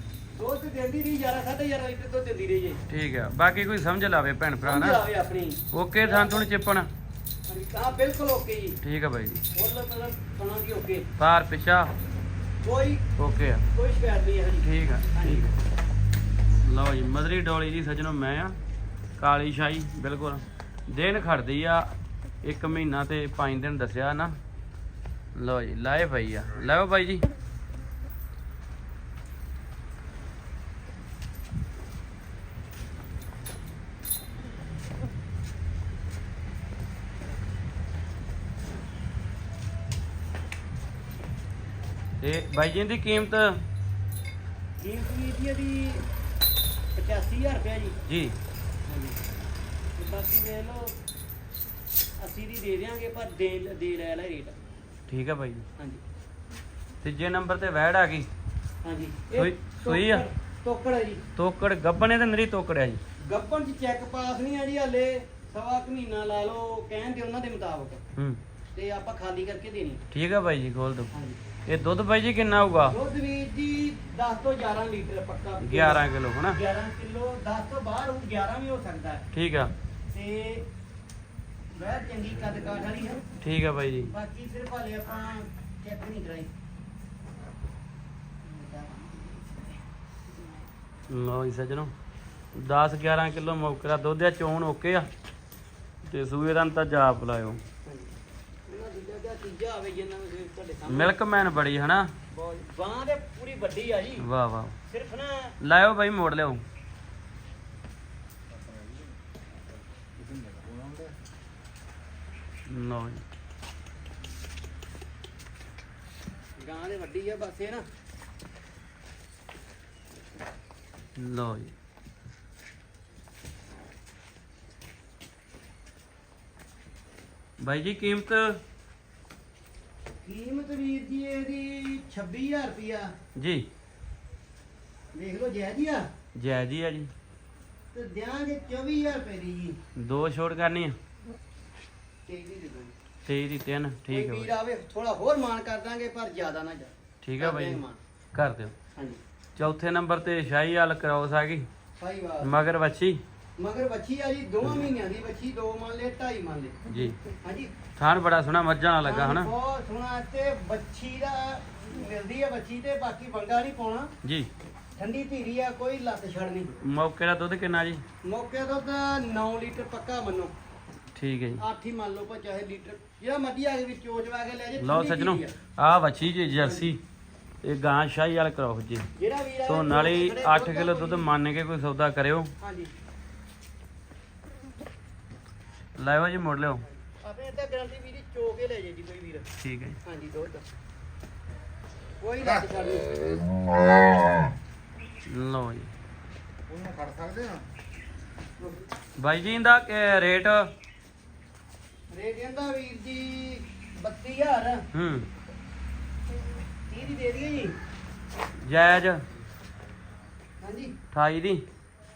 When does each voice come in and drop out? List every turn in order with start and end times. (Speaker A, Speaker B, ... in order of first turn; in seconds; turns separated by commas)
Speaker A: 0.4-2.8, Speaker B: 2.9-5.0, Speaker A: 4.6-6.5, Speaker B: 5.7-6.9, Speaker A: 7.5-8.8, Speaker B: 8.8-9.4, Speaker A: 9.6-11.1, Speaker B: 11.2-11.9, Speaker A: 12.6-13.0, Speaker B: 13.2-13.7, Speaker A: 13.7-15.5, Speaker B: 14.6-15.5, Speaker B: 16.6-18.6, Speaker B: 19.2-21.9, Speaker B: 22.4-24.4, Speaker B: 25.4-27.3, Speaker B: 42.2-43.6, Speaker A: 44.8-46.0, Speaker A: 47.0-48.0, Speaker B: 48.1-48.4, Speaker A: 48.9-49.2, Speaker A: 50.0-51.0, Speaker A: 52.2-54.6, Speaker B: 55.1-55.6, Speaker B: 57.0-58.3, Speaker A: 58.8-61.2, Speaker B: 59.4-60.2, Speaker B: 61.4-63.0, Speaker A: 63.3-68.0, Speaker A: 68.8-70.0, Speaker B: 70.1-71.1, Speaker A: 71.1-71.4, Speaker B: 71.7-73.0, Speaker A: 72.9-79.2, Speaker B: 75.6-76.6, Speaker B: 79.3-79.7, Speaker A: 80.1-80.7, Speaker A: 81.8-83.2, Speaker B: 83.4-84.1, Speaker A: 84.1-86.5, Speaker A: 88.4-90.7, Speaker B: 91.1-91.9, Speaker B: 92.5-95.1, Speaker B: 96.0-97.6, Speaker A: 97.9-98.1, Speaker A: 98.7-101.2, Speaker B: 100.9-102.1, Speaker A: 102.3-104.2, Speaker B: 104.2-104.8, Speaker A: 104.9-105.6, Speaker B: 105.6-106.6, Speaker C: 108.6-109.1, Speaker C: 110.2-111.1, Speaker B: 112.7-113.2, Speaker A: 116.6-117.8, Speaker B: 121.2-121.7, Speaker B: 127.6-128.6, Speaker A: 130.2-133.1, Speaker B: 133.4-133.7, Speaker A: 135.1-136.1, Speaker B: 136.3-137.1, Speaker A: 137.9-139.8, Speaker B: 139.9-140.9, Speaker A: 142.3-142.9, Speaker B: 143.2-144.5, Speaker A: 144.1-148.0, Speaker B: 147.2-147.8, Speaker B: 148.3-148.7, Speaker B: 149.6-151.7, Speaker A: 152.0-152.5, Speaker B: 152.4-153.2, Speaker A: 153.6-156.8, Speaker B: 156.9-157.2, Speaker A: 157.4-157.7, Speaker B: 157.9-159.5, Speaker A: 159.0-164.1, Speaker B: 164.2-164.5, Speaker A: 165.0-166.8, Speaker B: 166.8-168.0, Speaker A: 168.2-170.5, Speaker B: 171.1-171.6, Speaker A: 171.6-175.5, Speaker B: 174.8-177.0, Speaker A: 176.6-176.9, Speaker B: 177.6-179.1, Speaker A: 179.2-181.3, Speaker B: 179.7-182.5, Speaker A: 182.6-182.9, Speaker B: 186.0-186.8, Speaker A: 186.9-189.4, Speaker B: 189.6-190.0, Speaker A: 190.1-190.6, Speaker A: 192.2-193.1, Speaker B: 195.2-195.9, Speaker C: 196.7-197.6, Speaker B: 199.2-200.7, Speaker A: 202.1-204.8, Speaker B: 204.9-205.3, Speaker A: 206.9-207.8, Speaker B: 208.6-209.2, Speaker A: 210.6-210.9, Speaker B: 211.1-211.6